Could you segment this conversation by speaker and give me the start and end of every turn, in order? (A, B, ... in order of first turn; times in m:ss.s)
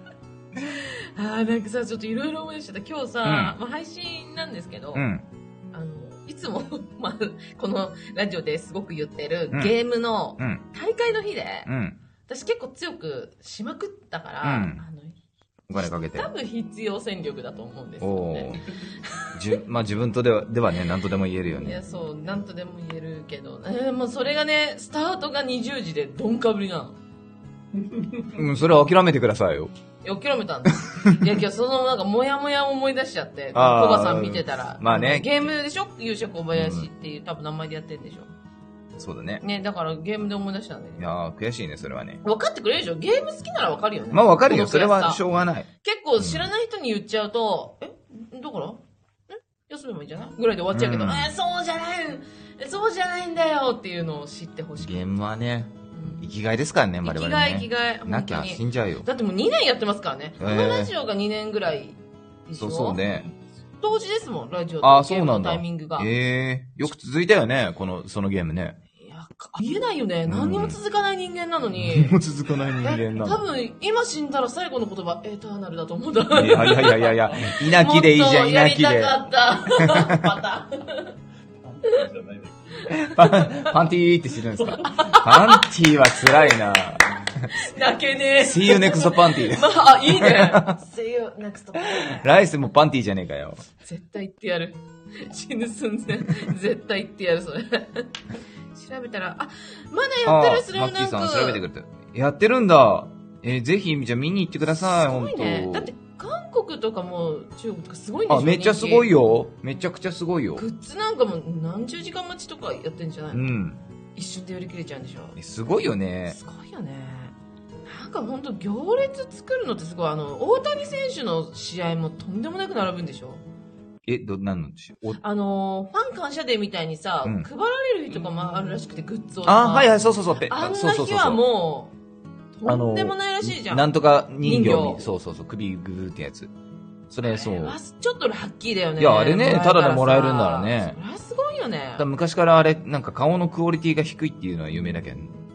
0:00.6-0:05.0 A
0:03.2-0:03.6 B
0:04.9-0:05.2 B
0:05.7-0:11.7 A
0:10.4-0:10.6 B
0:11.7-0:12.0 B
0:12.2-0:15.2 A
0:14.4-0:14.8 B
0:15.7-0:16.3 B
0:15.8-0:19.3 A
0:18.0-0:18.6 B
0:19.3-0:21.8 B
0:21.5-0:27.0 A
0:27.7-0:28.4 C
0:28.3-0:29.7 B
0:30.0-0:38.3 A
0:30.9-0:31.1 B
0:33.5-0:35.5 B
0:36.5-0:36.9 B
0:39.0-0:39.4 B
0:39.4-0:41.1 A
0:41.0-0:42.2 B
0:42.2-0:45.2 A
0:44.1-0:46.5 B
0:45.8-0:55.2 A
0:50.7-0:51.3 B
0:54.8-0:59.1 B
0:55.9-0:56.3 A
0:57.0-1:03.0 A
1:00.4-1:00.9 B
1:02.6-1:03.3 B
1:03.8-1:06.1 A
1:04.8-1:08.8 B
1:09.0-1:12.2 A
1:10.3-1:10.8 B
1:11.8-1:13.4 B
1:12.8-1:21.1 A
1:16.3-1:19.2 B
1:19.7-1:20.4 B
1:21.5-1:23.1 C
1:22.9-1:23.7 A
1:23.0-1:27.5 B
1:24.5-1:25.1 C
1:24.8-1:26.5 A
1:27.5-1:32.3 A
1:28.4-1:30.8 B
1:31.9-1:33.6 B
1:33.8-1:38.1 A
1:38.7-1:41.6 A
1:40.2-1:45.9 B
1:44.8-1:49.1 A
1:48.3-1:50.6 B
1:50.6-1:53.5 A
1:53.3-1:53.8 B
1:54.2-1:55.4 A
1:55.4-1:56.4 B
1:56.3-2:03.4 A
2:04.0-2:05.2 B
2:05.2-2:11.9 A
2:09.4-2:11.4 B
2:12.6-2:15.1 A
2:12.6-2:16.5 B
2:17.1-2:17.8 B
2:17.2-2:22.0 A
2:19.0-2:21.0 B
2:22.0-2:25.3 B